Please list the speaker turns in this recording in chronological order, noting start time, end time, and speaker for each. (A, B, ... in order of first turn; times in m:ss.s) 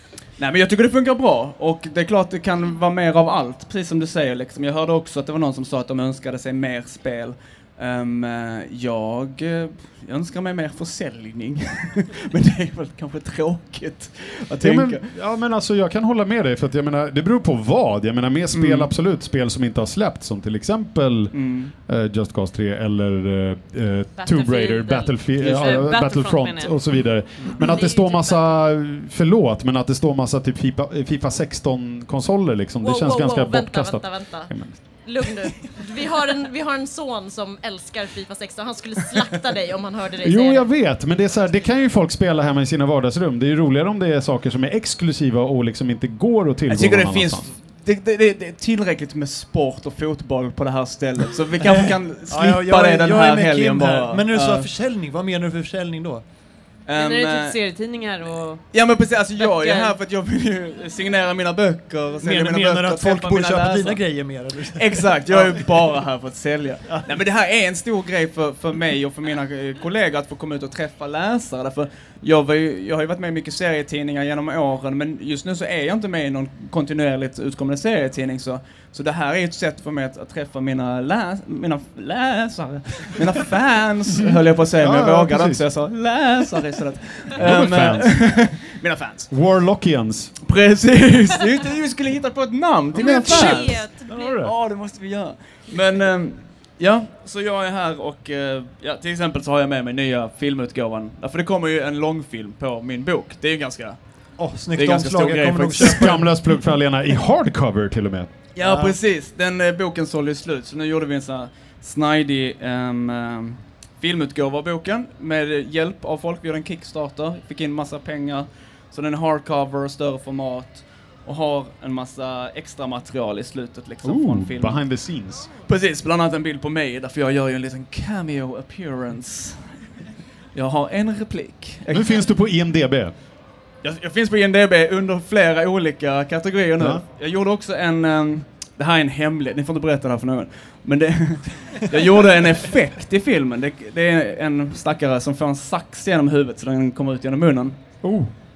0:00.4-0:15.1 A
0:14.6-0:21.3 B
0:18.5-0:18.9 A
0:21.3-0:21.7 A
0:21.9-0:35.3 B
0:24.2-0:26.8 C
0:27.6-0:28.5 D
0:32.8-0:40.7 D
0:40.2-0:47.5 B
0:46.7-0:54.7 A
0:52.3-0:56.2 E
0:56.9-0:57.6 A
0:56.9-0:58.6 C
0:58.7-1:04.0 A
0:59.4-1:00.0 C
1:02.2-1:05.9 E
1:04.7-1:29.3 A
1:24.8-1:25.6 B
1:27.4-1:28.2 B
1:29.3-1:30.3 B
1:30.4-1:44.0 A
1:32.9-1:34.1 D
1:33.0-1:34.5 B
1:44.4-1:46.2 E
1:44.7-1:46.2 A
1:45.8-1:48.3 B
1:48.6-2:04.8 A
1:48.6-1:49.0 E
2:04.0-2:05.5 B
2:05.6-2:09.7 A
2:10.5-2:12.2 A
2:11.9-2:13.1 B
2:13.8-2:27.8 A
2:28.0-2:28.3 B